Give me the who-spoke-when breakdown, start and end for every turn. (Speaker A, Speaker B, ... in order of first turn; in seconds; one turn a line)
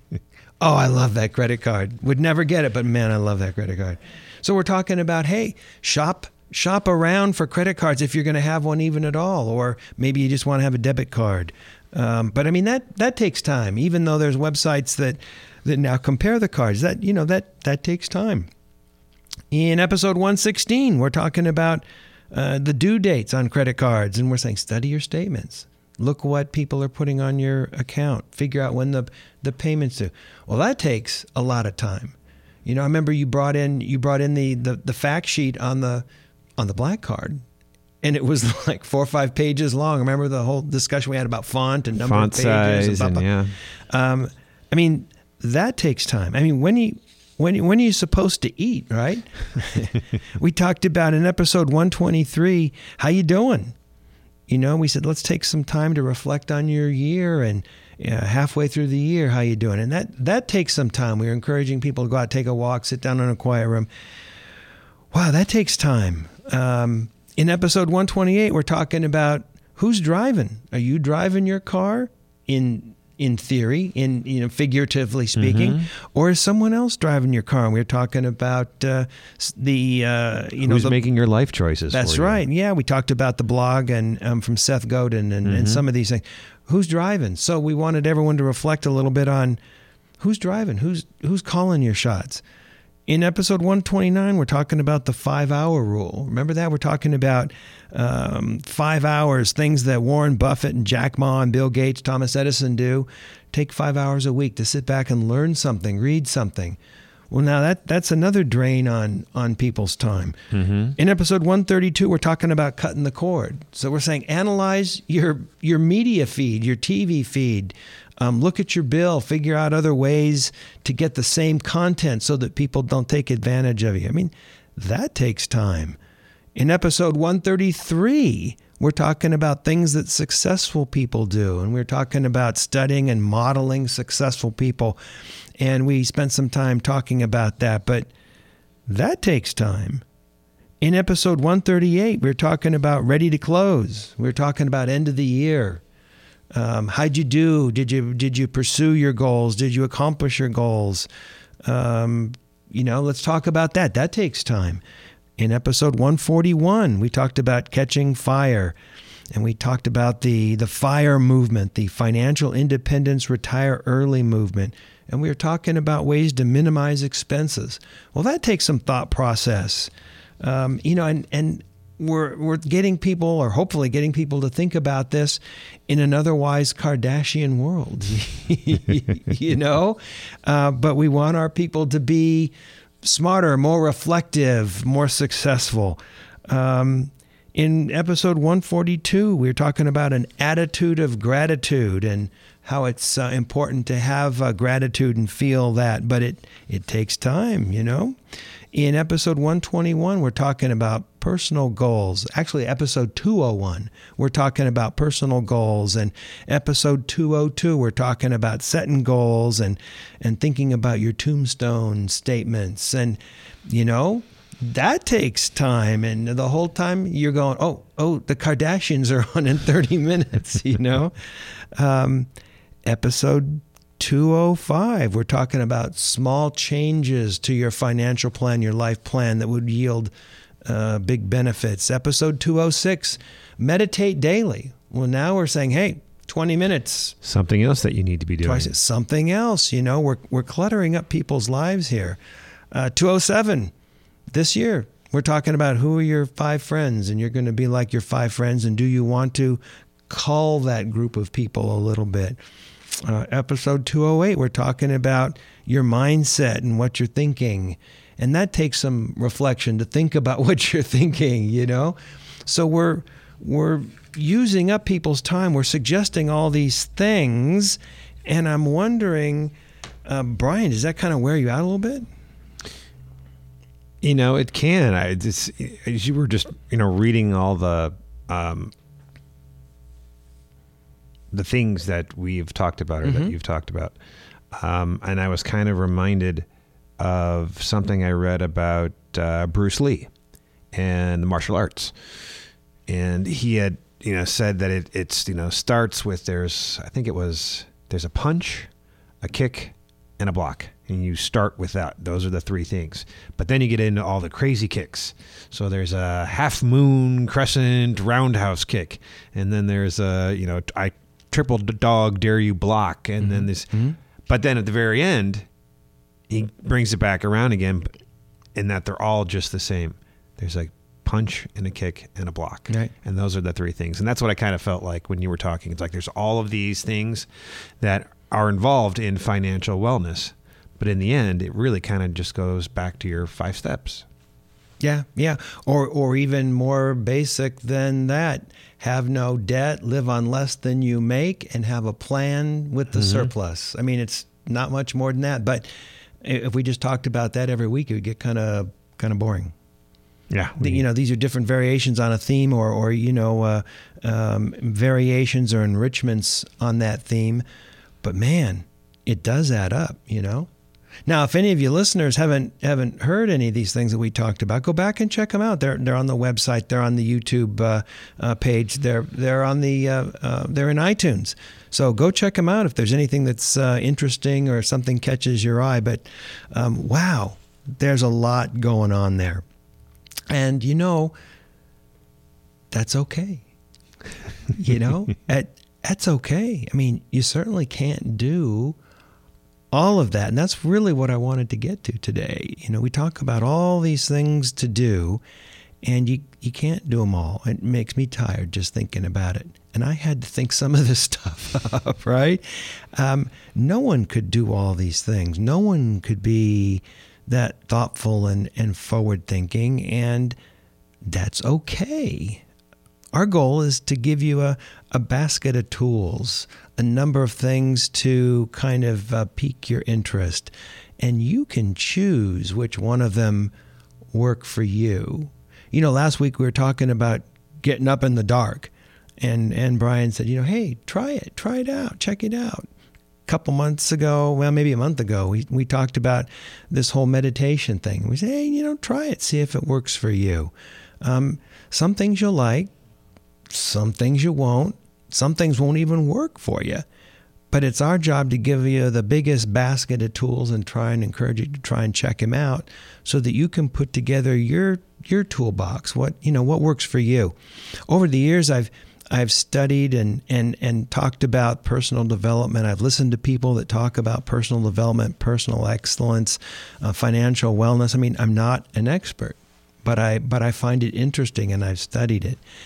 Speaker A: 0.6-18.5
Speaker A: 19.5-36.0
Speaker A: 36.6-37.4
Speaker A: 38.0-43.3
Speaker B: 42.0-43.5
Speaker A: 43.9-53.7
Speaker A: 54.5-63.9
Speaker A: 65.1-81.0
Speaker B: 75.4-75.9
Speaker B: 80.6-82.4
Speaker A: 81.9-89.6
Speaker B: 85.4-85.8
Speaker A: 90.2-92.4
Speaker A: 93.1-106.8
Speaker A: 107.3-110.4
Speaker B: 110.5-110.9
Speaker A: 111.0-126.0
Speaker A: 126.5-135.0
Speaker A: 135.6-138.1
Speaker A: 138.9-140.0
Speaker A: 140.8-145.8
Speaker A: 146.5-151.1
Speaker A: 151.6-154.8
Speaker A: 155.4-158.7
Speaker A: 159.3-198.2
Speaker A: 198.7-222.3
Speaker A: 222.8-230.1
Speaker A: 230.6-237.2
Speaker B: 237.2-238.7
Speaker A: 238.4-242.2
Speaker A: 242.7-243.7
Speaker A: 244.3-252.4
Speaker A: 252.9-269.5
Speaker A: 270.0-272.1
Speaker B: 274.0-278.7
Speaker B: 281.3-283.9
Speaker A: 283.0-283.3
Speaker B: 284.5-286.4
Speaker B: 287.0-290.1
Speaker B: 290.7-291.9
Speaker B: 292.9-298.7
Speaker B: 299.2-313.7
Speaker A: 313.2-314.0
Speaker B: 314.3-315.4
Speaker B: 316.3-317.9
Speaker B: 318.5-327.3
Speaker B: 327.8-334.1
Speaker A: 334.8-345.7
Speaker B: 342.9-343.3
Speaker A: 346.2-349.5
Speaker B: 350.3-350.8
Speaker A: 350.6-357.4
Speaker A: 358.0-360.5
Speaker A: 361.1-379.4
Speaker A: 380.3-381.1
Speaker A: 382.7-383.4
Speaker A: 384.5-388.8
Speaker A: 389.7-395.2
Speaker A: 395.8-410.4
Speaker A: 411.0-412.4
Speaker A: 413.1-423.5
Speaker A: 424.1-432.7
Speaker A: 433.3-442.7
Speaker A: 443.5-446.8
Speaker A: 447.5-457.3
Speaker A: 457.9-472.4